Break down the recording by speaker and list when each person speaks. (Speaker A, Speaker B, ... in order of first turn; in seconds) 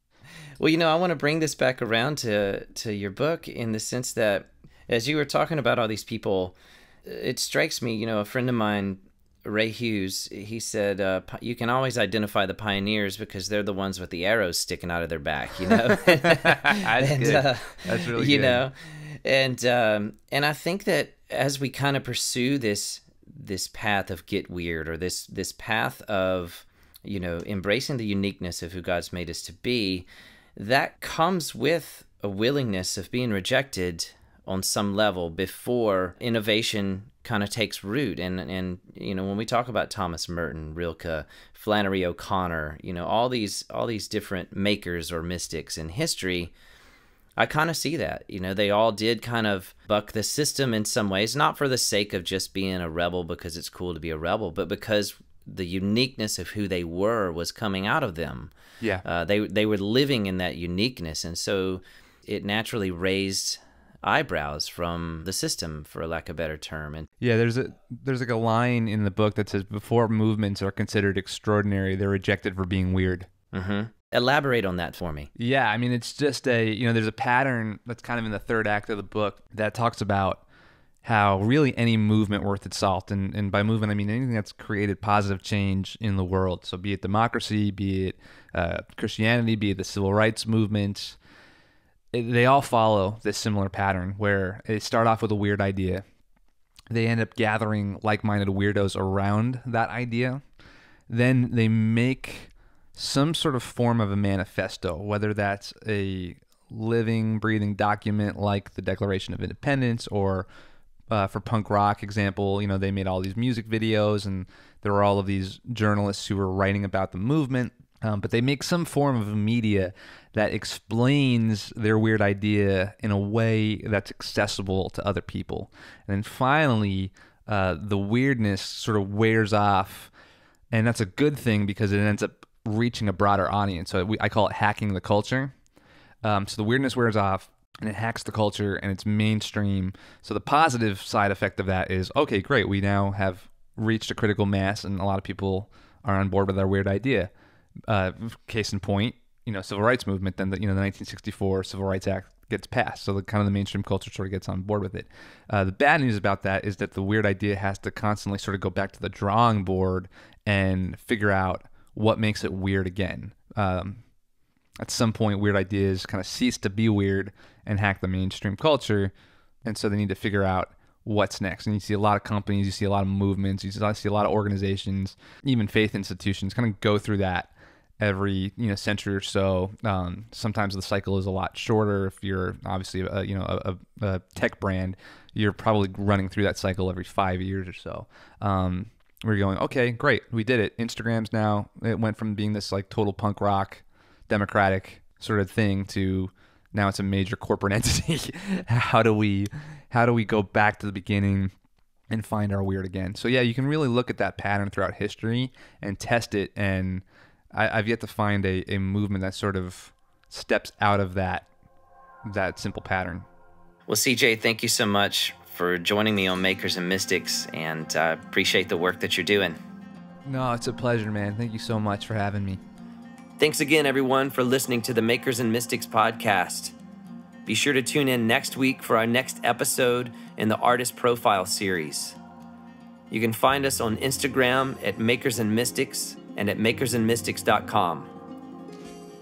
Speaker A: 0.6-46.5, 47.4-67.1, 73.5-75.3, 213.9-219.6, 223.4-226.7, 227.4-232.2, 233.1-238.1
Speaker B: 16.3-18.6, 67.2-73.3, 75.3-80.4, 81.0-91.2, 92.1-96.0, 96.9-100.4, 101.1-110.5, 111.1-130.1, 130.7-135.5, 136.2-147.3, 147.9-164.0, 164.8-169.1, 169.6-201.5, 202.1-211.5, 212.2-213.3, 220.2-222.6